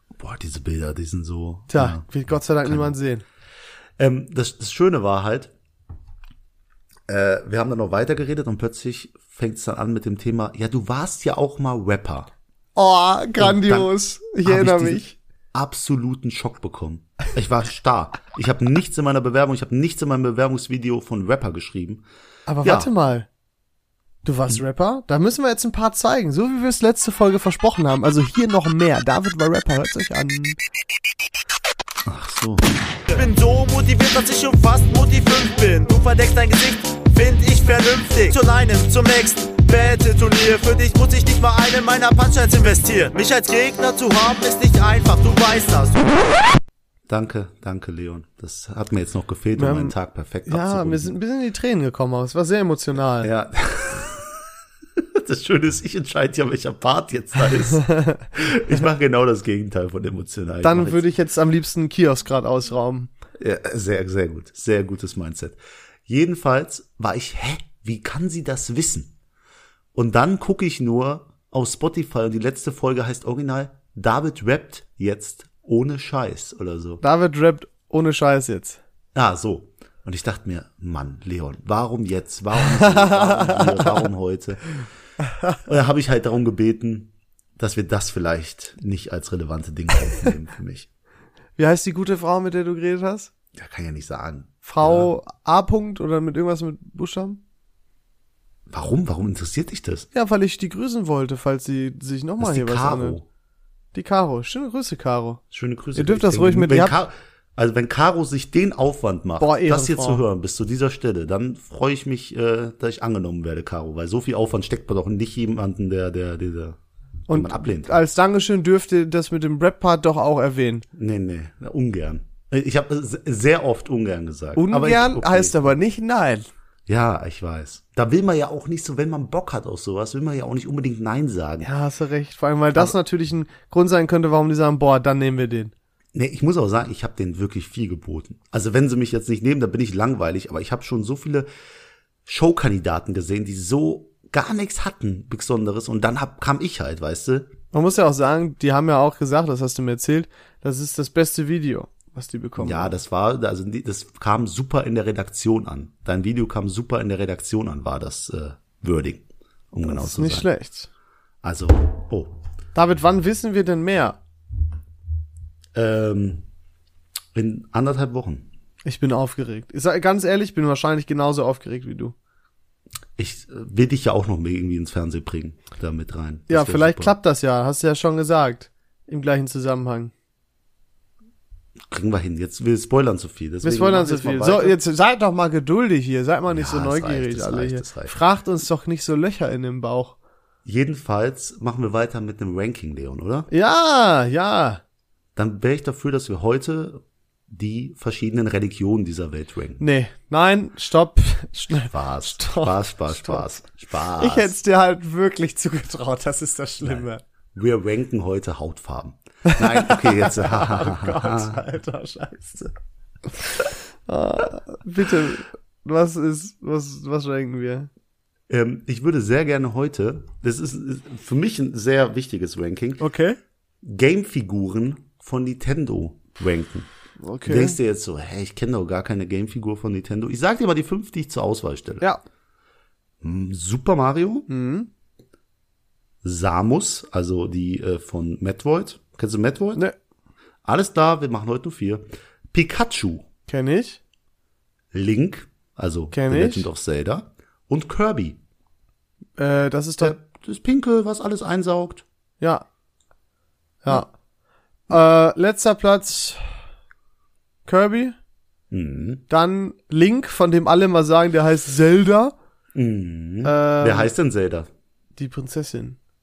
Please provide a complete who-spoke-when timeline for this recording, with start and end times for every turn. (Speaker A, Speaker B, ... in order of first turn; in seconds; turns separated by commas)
Speaker A: 0.2-2.1, Speaker B: 1.7-3.2, Speaker A: 2.6-3.0, Speaker A: 4.0-5.5, Speaker A: 7.1-12.3, Speaker B: 12.8-15.2, Speaker A: 13.4-13.9, Speaker A: 14.4-22.1, Speaker B: 22.5-23.3, Speaker A: 22.6-22.9, Speaker B: 24.2-30.6, Speaker A: 32.0-32.7, Speaker C: 33.1-46.1, Speaker A: 47.1-51.1, Speaker B: 49.6-50.0, Speaker B: 50.5-53.3, Speaker A: 53.2-61.0, Speaker B: 57.8-58.3, Speaker B: 60.6-63.1, Speaker A: 63.4-69.1, Speaker A: 70.0-77.0, Speaker B: 77.0-78.8, Speaker A: 79.2-84.7, Speaker B: 82.8-84.0, Speaker A: 85.7-90.9, Speaker B: 91.6-93.3, Speaker A: 93.5-95.1, Speaker B: 94.6-97.4, Speaker A: 98.7-100.1, Speaker B: 100.1-103.2, Speaker A: 102.4-103.2, Speaker B: 103.9-105.4, Speaker A: 105.5-116.8, Speaker B: 106.0-107.0, Speaker B: 109.4-110.2, Speaker B: 117.3-120.8, Speaker A: 117.3-117.9, Speaker A: 120.9-125.6, Speaker B: 124.6-126.5, Speaker A: 126.9-131.7, Speaker B: 131.6-135.7, Speaker A: 136.1-141.5, Speaker A: 142.3-147.5, Speaker B: 147.7-152.9, Speaker A: 152.6-160.5, Speaker B: 159.8-160.9, Speaker A: 161.4-162.3, Speaker B: 162.8-164.2, Speaker A: 165.8-166.4, Speaker A: 167.3-168.5, Speaker B: 168.8-172.2, Speaker A: 173.2-177.2, Speaker B: 176.5-180.1, Speaker A: 181.9-184.8, Speaker B: 183.6-190.2, Speaker A: 186.5-188.2, Speaker A: 190.7-193.5, Speaker B: 193.5-194.8, Speaker A: 195.4-199.8, Speaker B: 199.8-203.6, Speaker A: 201.7-204.6, Speaker B: 204.2-207.2, Speaker A: 206.8-211.6, Speaker B: 209.5-212.7, Speaker B: 213.4-217.9, Speaker A: 218.5-223.0, Speaker B: 223.0-223.4, Speaker A: 223.8-226.9, Speaker B: 227.2-227.8, Speaker A: 227.5-232.1, Speaker A: 233.2-234.5, Speaker B: 234.5-234.9, Speaker A: 236.2-239.8, Speaker A: 240.7-243.3, Speaker B: 243.5-244.0, Speaker A: 244.9-248.4, Speaker B: 246.1-246.7, Speaker B: 249.4-250.2, Speaker A: 250.0-252.1, Speaker B: 252.4-252.7, Speaker B: 253.8-254.1, Speaker B: 254.9-256.4, Speaker B: 257.7-258.2, Speaker A: 258.7-259.2, Speaker B: 259.3-262.4, Speaker A: 262.8-264.7, Speaker B: 263.4-264.1, Speaker B: 265.2-266.0